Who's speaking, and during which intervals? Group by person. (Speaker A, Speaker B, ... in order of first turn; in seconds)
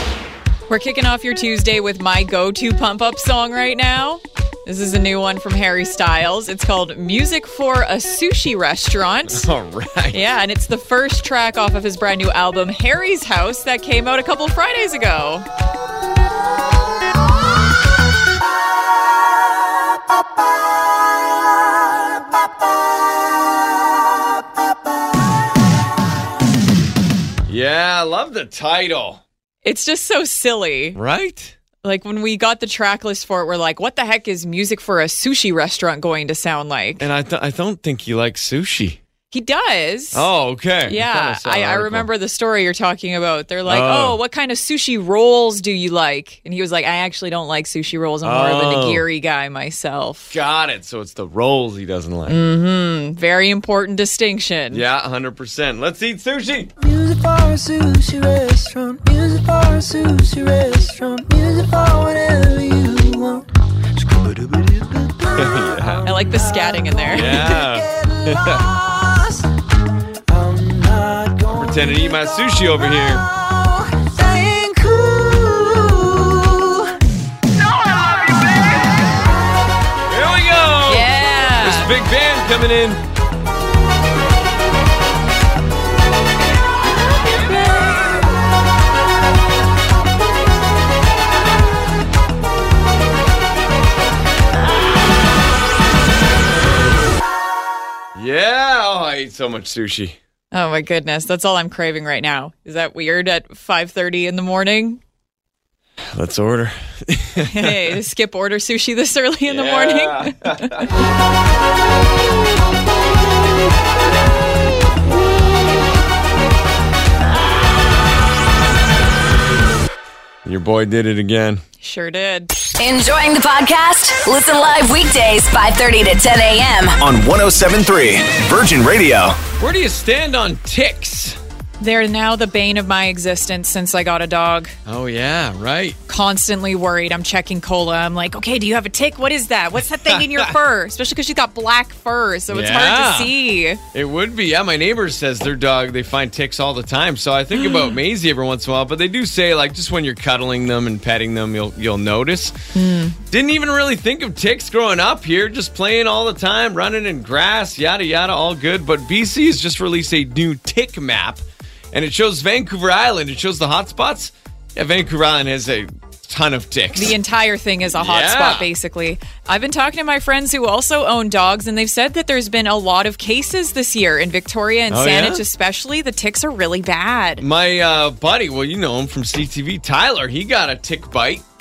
Speaker A: 0.7-9.5, 10.1-15.5, 29.6-31.0, 31.8-37.1, 39.3-40.3, 40.9-50.3, 52.3-54.8, 66.0-67.6, 80.9-81.9, 100.5-105.0, 107.4-110.9, 121.8-122.5, 131.8-134.7, 136.1-143.8, 147.6-147.9, 152.7-153.2, 166.9-177.4
Speaker B: 9.3-10.2, 27.5-29.2, 30.9-31.5, 37.0-39.0, 40.1-42.1, 43.7-44.2, 48.2-49.0, 50.3-52.4, 54.7-56.7, 65.4-66.1, 67.1-68.6, 71.5-73.2, 80.1-83.0, 98.2-100.2, 106.1-108.0, 109.5-110.9, 120.5-121.6, 129.6-131.4, 134.9-136.0, 140.1-140.5, 142.5-143.3, 143.9-152.6, 153.3-167.2, 168.0-168.7, 174.9-175.4, 177.4-181.4
Speaker C: 56.8-69.5, 70.3-77.0
Speaker D: 122.8-127.0
Speaker E: 127.0-129.4